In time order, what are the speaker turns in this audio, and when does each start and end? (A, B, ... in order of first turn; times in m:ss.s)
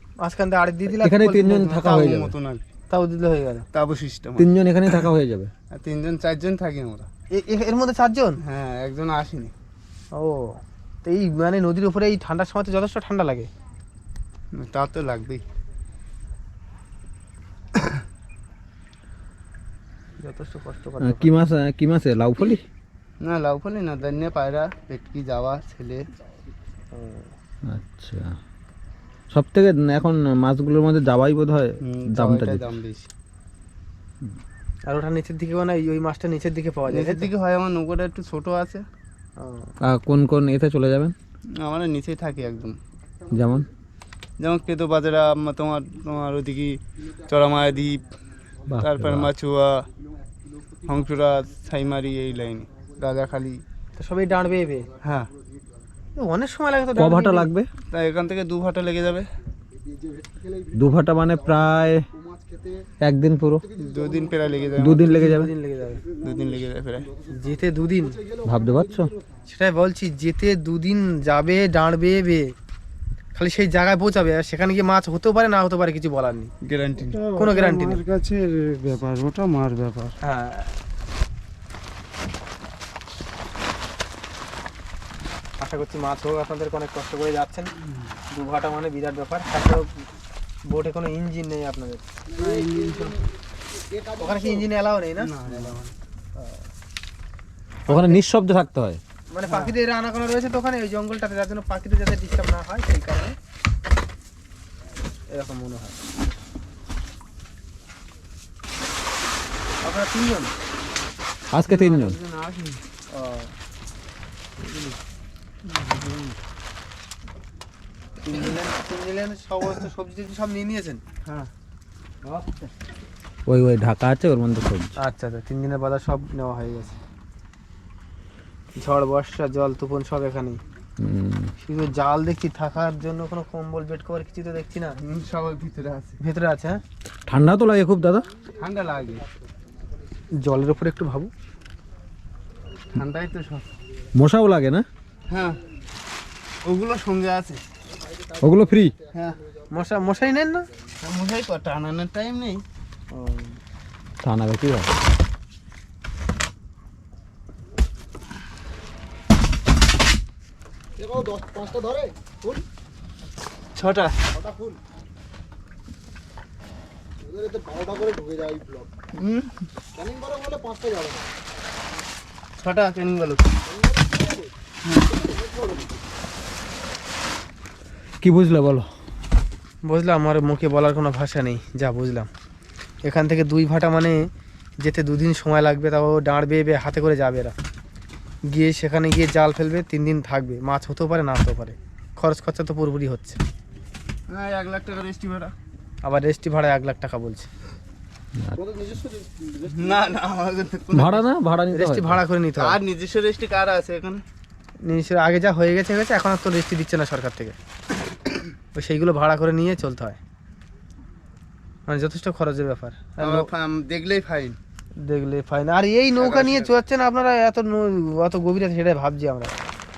0:00.2-0:01.3 A
0:01.0-0:02.3 B
0:01.2-0:02.6 C
0:02.9-0:03.6 A
0:03.7-0:05.0 C
0:04.4-0:05.5 B
0:05.7-0:07.1 C
0:07.3-0:08.4 A
0:08.4-0:09.5 C
0:10.2-0:13.5 A
0:14.5-0:15.4 C
0:20.2-0:21.3 A
0:21.0-0:22.6 B
0:23.2-0:26.0 C
0:26.9-0:27.3 A
0:27.7-0:28.3 B
0:29.3-0:32.7 B
0:31.8-0:33.1 C
0:34.9-0:37.3 A
0:36.9-0:38.8 C
0:39.4-0:39.7 A
0:39.9-0:41.1 B
0:41.6-0:42.8 C
0:43.3-0:43.7 B
0:44.4-0:48.1 C
0:48.7-0:49.3 B
0:48.8-0:49.9 C
0:50.9-0:53.6 C
0:54.0-0:54.9 A
0:55.0-0:55.3 C
0:56.2-0:57.5 A
0:57.0-0:57.7 B
0:57.9-0:59.3 C
0:59.8-1:02.9 D
1:00.8-1:02.0 B
1:03.0-1:03.8 B
1:03.7-1:05.1 D
1:03.8-1:05.4 C
1:04.8-1:05.5 B
1:04.9-1:06.0 A
1:06.2-1:09.2 D
1:06.2-1:07.1 C
1:07.3-1:08.2 A
1:08.4-1:09.1 B
1:09.5-1:12.5 A
1:13.4-1:16.5 A
1:16.6-1:17.2 C
1:17.1-1:20.2 E
1:17.4-1:18.0 A
1:20.2-1:20.8 A
1:25.6-1:27.7 A
1:28.3-1:30.1 A
1:30.7-1:33.1 A
1:32.3-1:34.7 D
1:34.2-1:35.3 A
1:35.2-1:35.9 C
1:35.5-1:35.8 D
1:36.4-1:36.7 A
1:37.9-1:38.2 A
1:37.9-1:39.0 B
1:39.3-1:43.4 A
1:39.4-1:39.7 C
1:45.3-1:46.0 A
1:49.8-1:50.5 A
1:51.5-1:52.2 B
1:51.6-1:52.8 C
1:53.1-1:53.5 A
1:55.8-1:56.2 C
1:58.2-2:01.0 A
2:01.2-2:01.5 C
2:03.5-2:05.0 B
2:05.0-2:07.0 A
2:08.8-2:10.6 A
2:11.0-2:11.5 B
2:11.6-2:15.0 A
2:15.0-2:16.2 C
2:16.2-2:16.8 A
2:17.3-2:18.3 B
2:18.6-2:19.2 C
2:20.4-2:21.3 A
2:22.9-2:23.7 C
2:24.2-2:24.8 B
2:25.3-2:25.6 C
2:26.7-2:27.6 C
2:28.4-2:28.9 D
2:28.4-2:29.0 B
2:29.1-2:29.4 C
2:29.7-2:30.7 A
2:31.0-2:32.6 C
2:33.1-2:33.6 A
2:34.2-2:34.9 B
2:41.0-2:42.6 D
2:43.8-2:44.2 C
2:44.3-2:44.8 D
2:47.2-2:48.9 D
2:49.2-2:49.5 C
2:50.0-2:51.3 D
2:52.6-2:53.5 C
2:53.7-2:54.5 D
2:55.1-2:56.0 D
2:58.2-2:58.9 B
2:59.8-3:02.3 A
3:03.0-3:04.3 A
3:04.8-3:07.5 A
3:08.5-3:13.4 A
3:14.3-3:15.5 C
3:16.0-3:17.5 A
3:18.6-3:20.0 D
3:19.7-3:21.3 C
3:20.9-3:22.2 B
3:21.7-3:22.8 A
3:22.6-3:24.2 C
3:24.8-3:27.6 A
3:28.7-3:30.2 A
3:31.9-3:33.5 A
3:33.2-3:34.6 C
3:35.0-3:39.5 A
3:36.2-3:36.7 C